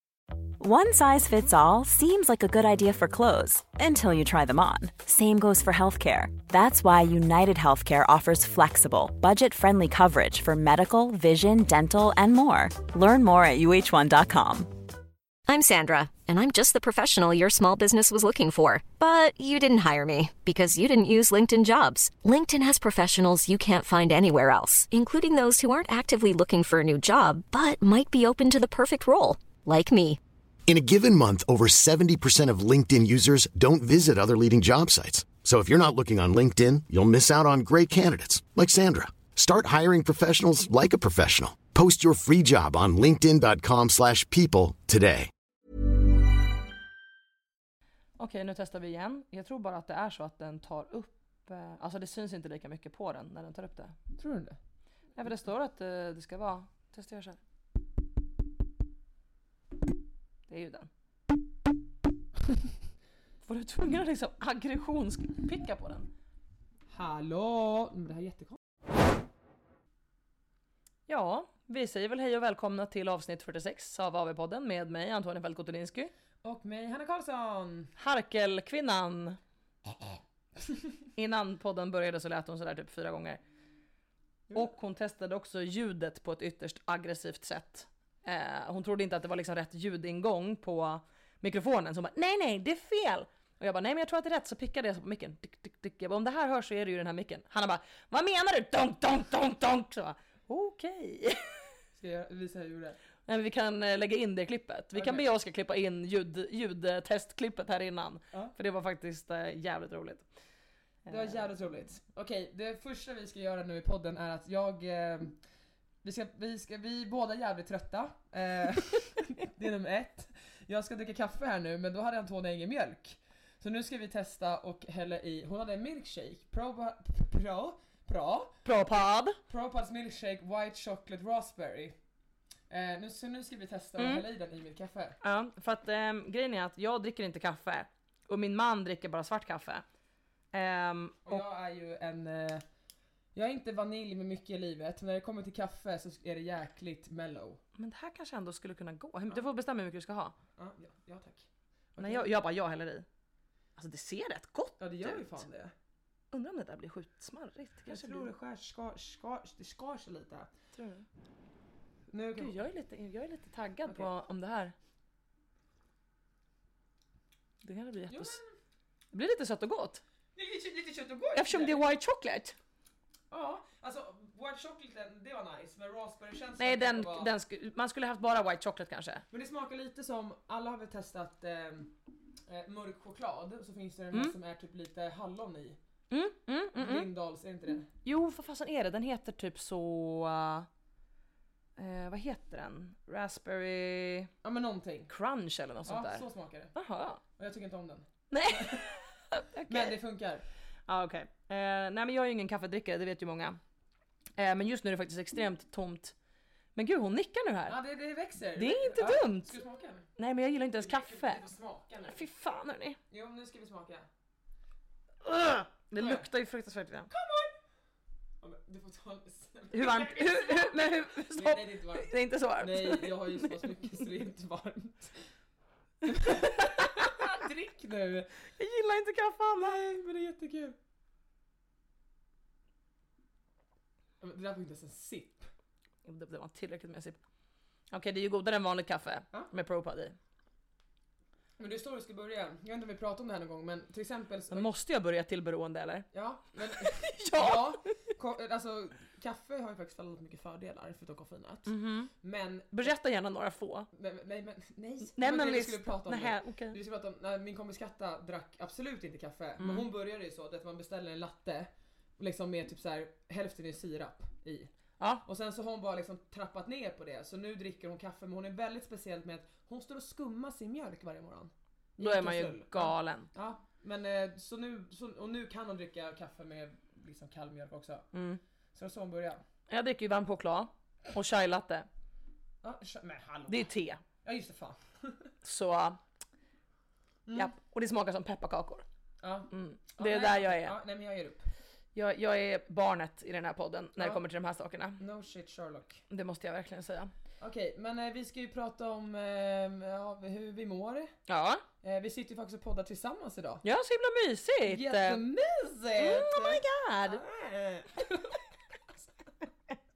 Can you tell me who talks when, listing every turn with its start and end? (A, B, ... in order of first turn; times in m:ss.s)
0:00.6-0:14.7 A
0:15.5-0:30.2 B
0:30.7-0:45.3 C
0:48.2-0:54.0 D
0:54.2-0:54.6 E
0:55.2-0:57.4 D
1:00.5-1:00.9 D
1:03.4-1:06.1 D
1:06.9-1:08.6 E
1:11.1-1:16.1 D
1:16.4-1:17.9 E
1:18.0-1:19.4 D
1:21.2-1:23.4 D
1:24.5-1:41.7 D
1:41.9-1:43.0 E
1:43.3-1:50.3 D
1:44.9-1:45.2 E
1:51.0-1:51.4 D
1:51.1-1:55.4 E
1:56.0-2:08.6 E
2:08.6-2:09.4 D
2:09.5-2:12.0 E
2:12.7-2:15.2 E
2:14.0-2:14.2 D
2:15.2-2:19.8 D
2:20.5-2:21.4 D
2:21.2-2:22.6 E
2:23.4-2:27.6 E
2:27.8-2:30.3 D
2:30.6-2:32.3 E
2:32.0-2:33.0 D
2:33.8-2:35.4 D
2:34.8-2:35.7 E
2:36.3-2:38.3 D
2:37.9-2:40.5 E
2:40.8-2:41.1 D
2:42.1-2:42.6 E
2:42.4-2:44.7 D
2:47.6-2:48.4 D
2:48.1-2:48.5 E
2:49.1-2:50.0 D
2:50.4-2:51.8 E
2:51.4-2:52.6 D
2:53.3-2:57.3 E
2:56.6-2:59.2 D
2:59.3-3:01.9 E
3:02.5-3:05.8 E
3:06.1-3:07.1 D
3:06.8-3:07.9 E
3:08.0-3:10.7 D
3:11.8-3:14.3 D
3:14.4-3:15.1 E
3:15.1-3:17.2 D
3:15.9-3:16.7 E
3:17.4-3:18.8 E
3:18.3-3:19.9 D
3:19.7-3:20.4 E
3:20.9-3:23.6 D
3:24.4-3:26.1 D
3:26.8-3:27.8 D
3:27.7-3:30.0 E
3:28.6-3:29.6 D
3:30.2-3:31.4 D
3:30.8-3:32.2 E
3:32.1-3:33.0 D
3:33.1-3:34.1 E
3:35.2-3:37.1 D
3:36.0-3:36.2 E
3:37.1-3:37.5 E
3:38.4-3:45.2 E
3:39.7-3:44.1 D
3:46.0-3:48.3 E
3:46.3-3:46.7 D
3:48.6-3:49.8 D
3:49.6-3:50.8 E
3:54.2-3:55.5 E
3:56.0-3:57.2 D
3:57.9-4:00.2 D
4:01.6-4:04.7 E
4:04.5-4:06.1 D
4:06.1-4:12.9 E
4:06.8-4:07.9 D
4:11.7-4:12.1 D
4:12.7-4:13.9 D
4:13.9-4:24.7 E
4:15.2-4:16.8 D
4:19.6-4:19.9 D
4:25.0-4:25.2 D
4:25.2-4:38.1 E
4:32.0-4:33.3 D
4:38.1-4:38.4 D
4:38.8-4:39.4 E
4:39.7-4:41.9 D
4:42.6-4:43.7 E
4:43.5-4:44.0 D
4:44.2-4:45.3 E
4:45.4-4:46.0 D
4:47.3-4:47.5 E
4:47.4-4:48.8 D
4:49.2-4:51.5 E
4:49.5-4:50.8 D
4:52.0-4:55.0 D
4:55.0-4:56.0 E
4:56.1-4:57.1 D
4:57.4-5:01.1 E
5:01.3-5:01.6 D
5:01.8-5:03.6 E
5:03.6-5:05.2 D
5:04.7-5:08.4 E
5:06.0-5:07.2 D